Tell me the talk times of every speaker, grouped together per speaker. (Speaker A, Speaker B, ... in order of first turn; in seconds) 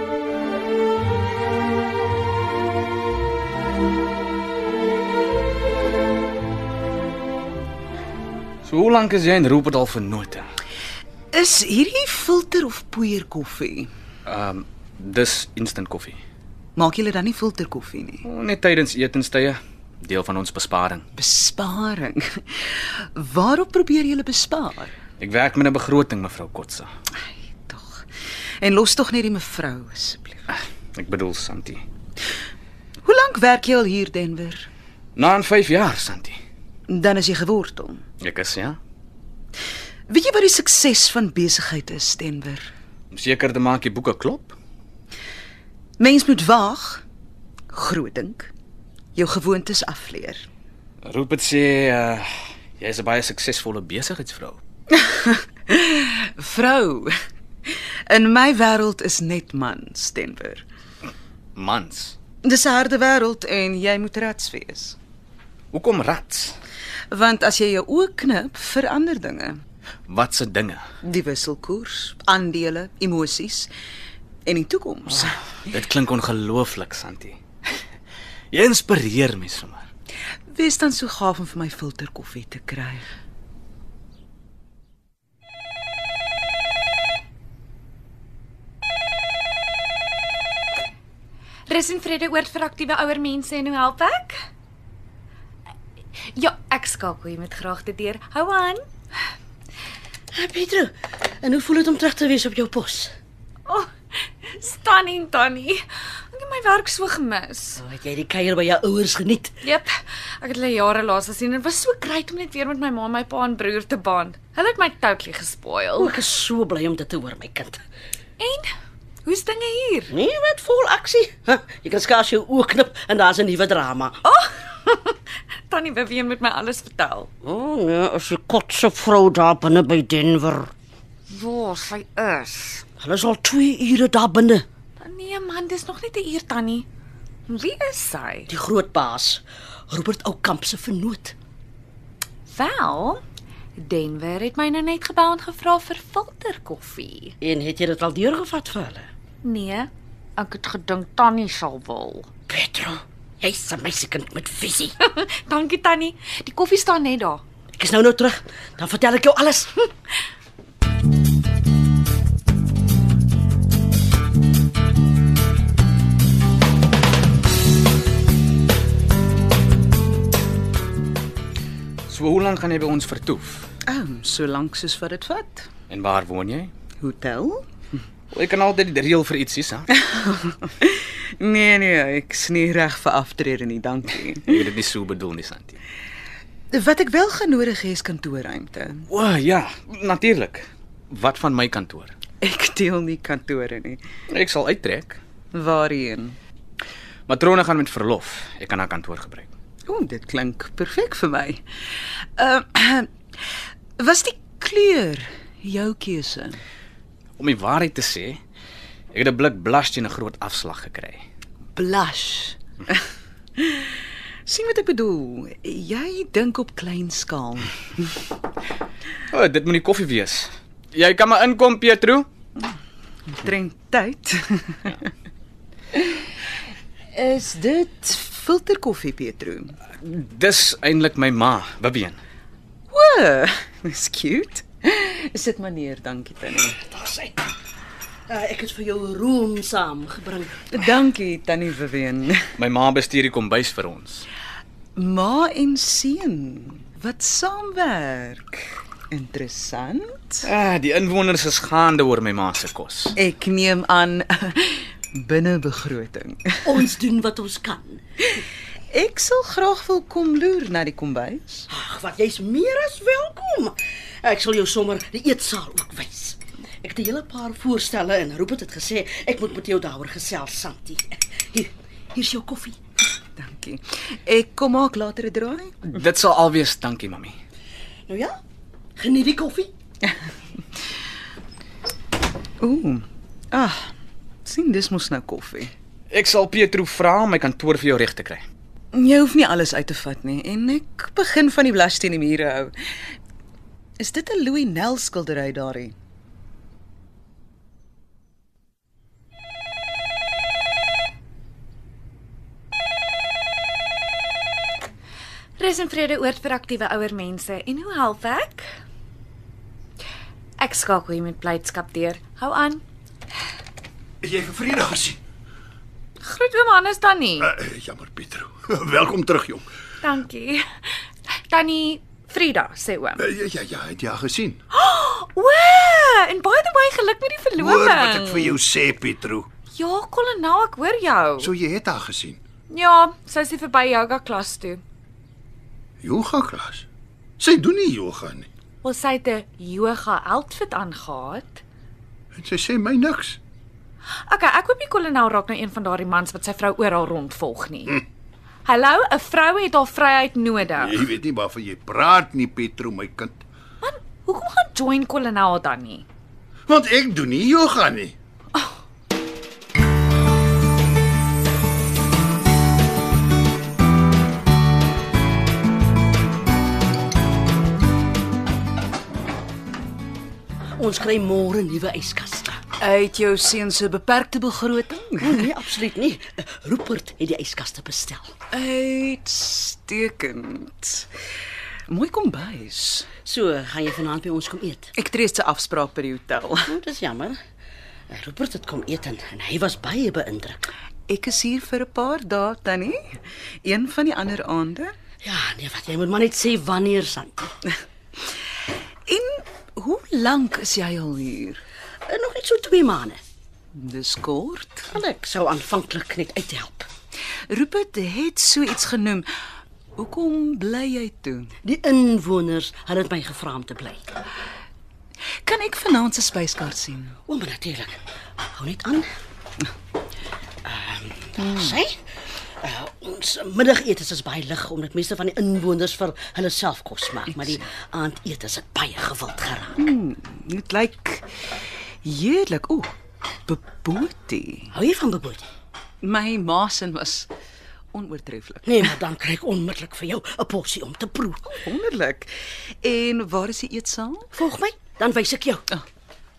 Speaker A: 8.6-10.5, 14.2-16.2, 18.2-21.0, 25.2-26.9, 30.5-31.8, 35.2-36.4, 38.2-38.8, 43.1-44.6, 51.0-54.6, 61.6-62.2, 65.7-66.6, 70.1-70.8, 75.7-77.4, 78.5-79.9, 172.1-173.7, 175.9-176.7, 178.3-179.9, 184.4-185.8, 189.1-192.2, 194.3-195.2, 197.3-199.5, 207.4-208.4, 209.1-211.2, 219.3-222.3, 230.0-232.2, 242.6-244.3, 250.4-253.2, 275.9-277.4, 286.1-288.4
Speaker B: 11.3-13.9, 16.8-18.2, 21.1-24.9, 27.4-28.1, 28.6-30.4, 33.0-34.7, 36.9-38.0, 40.1-42.7, 46.0-47.0, 47.7-48.5, 49.1-50.5, 54.9-57.1, 57.7-60.6, 62.4-65.0, 67.1-69.6, 71.0-73.7, 74.5-75.4, 80.5-83.1, 173.9-175.7, 177.0-177.7, 179.9-184.7, 186.7-189.1, 192.4-194.0, 195.5-196.4, 199.9-201.6, 202.2-203.1, 204.0-206.6, 211.8-213.0, 213.6-218.2, 223.3-225.0, 225.9-226.2, 227.1-229.8, 232.9-236.8, 240.7-242.5, 245.0-250.5, 253.2-256.8, 258.9-261.7, 273.4-275.8, 282.6-283.9, 284.4-285.7, 288.9-292.7, 294.0-295.9, 372.8-375.4, 378.5-381.1, 381.9-383.1, 384.9-386.7, 391.1-394.9, 399.1-401.6, 403.7-404.9, 407.5-409.3, 409.9-411.5, 415.4-417.2, 421.4-421.7, 429.8-432.9, 433.4-434.7, 436.0-437.3, 437.9-438.9, 441.5-444.3
Speaker C: 91.7-94.4, 96.3-98.8, 103.7-107.8, 109.6-116.2, 118.4-118.7, 119.2-120.1, 124.2-127.3, 131.3-132.8, 135.0-136.8, 137.5-138.5, 142.5-143.2, 143.8-147.3, 149.4-152.3, 155.0-157.4, 305.6-308.6, 310.6-312.8, 316.2-317.5, 320.0-320.6, 321.5-323.2, 324.7-328.6, 329.7-331.5, 332.7-334.8, 338.8-341.6, 344.3-348.0, 348.6-351.1, 353.8-356.0
Speaker D: 100.3-103.1, 107.8-109.6, 116.0-117.8, 120.1-124.2, 127.4-130.7, 133.0-134.7, 138.5-141.3, 147.4-149.1, 152.5-154.9, 157.8-159.8, 236.9-237.4, 238.3-240.8, 256.6-258.0, 261.7-272.8, 278.1-278.4, 279.0-279.7, 370.8-372.6, 375.2-378.3, 383.2-384.9, 386.6-387.4, 388.1-390.6, 395.2-397.5, 402.1-403.2, 404.9-406.9, 411.6-414.0, 417.3-418.0, 418.5-419.1, 420.6-422.0, 422.6-429.8, 434.7-435.5, 438.6-441.6, 444.3-445.6
Speaker E: 314.2-315.2, 317.4-319.6, 323.2-324.6, 327.6-329.5, 331.4-332.4, 336.0-336.9, 337.4-338.5, 342.4-343.4, 350.7-353.4, 356.7-358.1